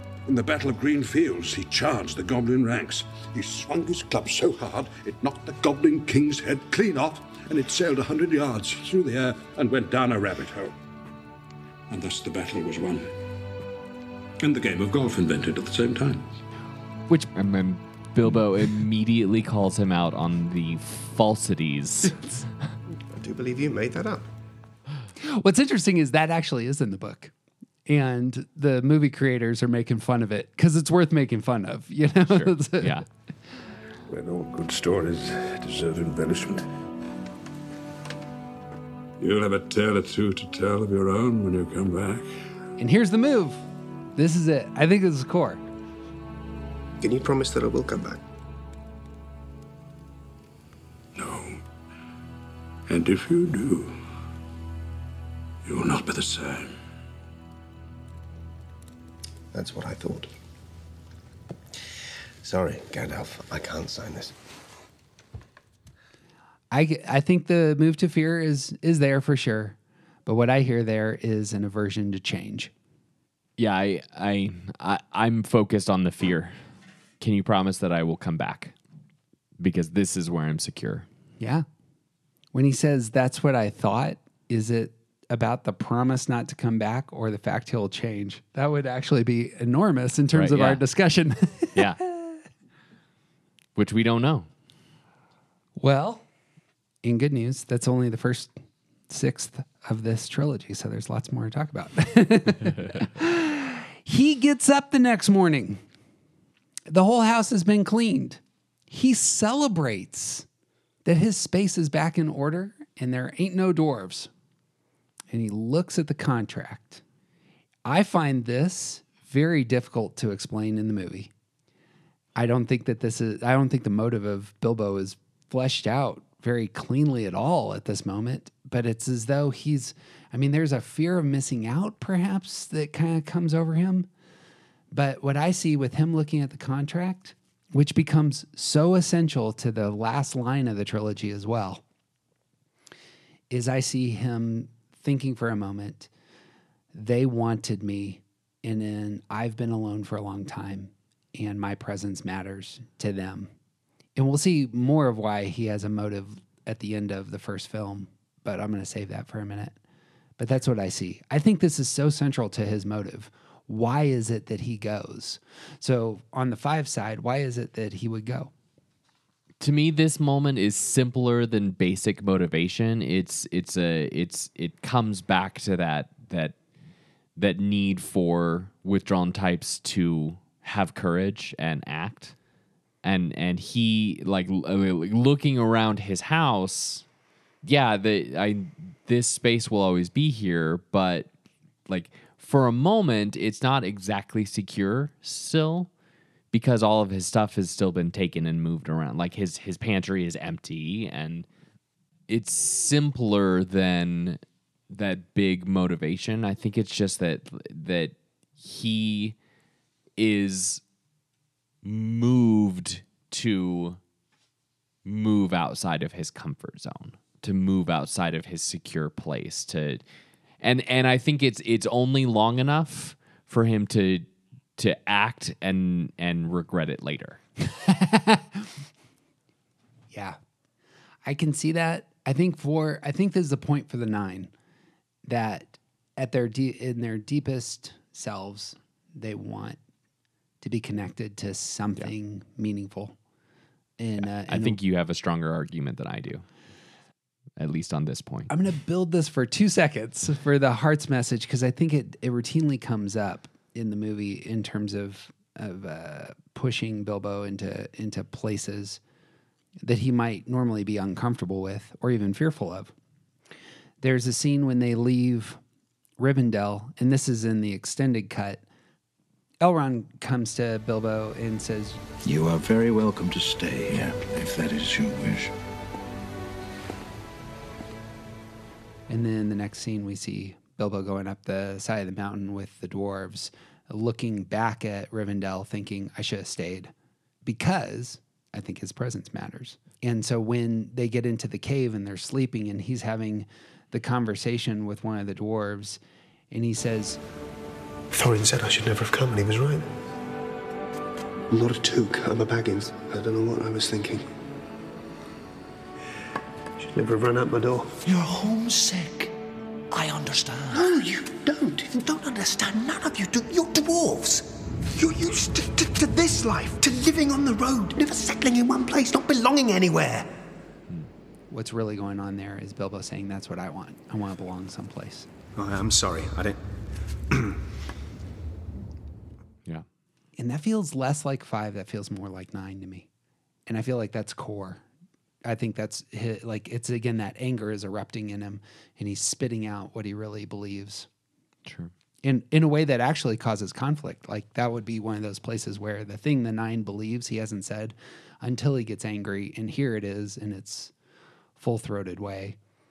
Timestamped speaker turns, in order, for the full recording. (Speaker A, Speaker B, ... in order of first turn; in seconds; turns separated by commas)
Speaker A: 0.2-10.8, Speaker A: 11.9-13.1, Speaker A: 14.4-16.4, Speaker B: 17.1-22.3, Speaker C: 23.1-24.2, Speaker D: 25.2-27.3, Speaker D: 27.9-33.0, Speaker B: 32.3-33.1, Speaker A: 34.1-36.7, Speaker A: 39.2-42.3, Speaker D: 42.8-43.6, Speaker D: 44.1-45.6, Speaker C: 47.0-48.2, Speaker A: 51.1-51.6, Speaker A: 52.9-54.0, Speaker A: 55.6-56.7, Speaker C: 59.5-60.3, Speaker C: 62.4-64.3, Speaker D: 66.7-72.7, Speaker B: 73.6-76.6, Speaker B: 77.2-78.7, Speaker B: 79.6-81.1, Speaker D: 81.4-81.6, Speaker D: 82.5-92.3, Speaker B: 90.3-90.8, Speaker B: 91.7-92.0, Speaker B: 93.8-94.5, Speaker D: 95.8-96.2, Speaker D: 97.0-98.5, Speaker D: 99.1-105.8, Speaker D: 106.9-110.5, Speaker D: 111.0-114.3, Speaker D: 115.3-117.0, Speaker D: 117.8-121.3, Speaker D: 122.3-134.1, Speaker D: 134.9-141.8, Speaker D: 143.5-146.1, Speaker D: 146.9-153.5, Speaker D: 154.2-159.8, Speaker D: 160.4-168.5, Speaker B: 169.6-176.6, Speaker B: 177.3-182.3, Speaker B: 183.0-187.1, Speaker B: 187.6-191.3, Speaker B: 191.9-195.9, Speaker B: 196.5-201.5, Speaker B: 202.3-209.3, Speaker B: 210.2-210.8, Speaker B: 211.8-214.0, Speaker B: 215.0-220.0, Speaker B: 220.6-227.4, Speaker D: 227.7-228.7, Speaker D: 230.1-230.4, Speaker D: 231.2-234.5, Speaker D: 235.2-239.8, Speaker D: 240.6-243.2, Speaker D: 244.0-244.8, Speaker B: 244.2-246.4, Speaker B: 247.6-248.5, Speaker D: 248.5-259.0, Speaker D: 259.8-262.9, Speaker D: 264.0-265.6, Speaker D: 266.2-268.6, Speaker D: 269.6-272.0, Speaker E: 272.2-275.5, Speaker D: 279.1-286.9, Speaker D: 287.4-296.0, Speaker D: 296.5-297.2, Speaker C: 298.1-299.9, Speaker C: 301.5-304.3, Speaker C: 306.8-308.0, Speaker C: 310.7-320.3, Speaker D: 321.5-325.3, Speaker C: 325.6-326.6, Speaker D: 330.4-333.1, Speaker D: 333.7-334.8, Speaker D: 335.4-341.1, Speaker B: 341.6-341.9, Speaker D: 342.2-350.9, Speaker D: 351.6-352.6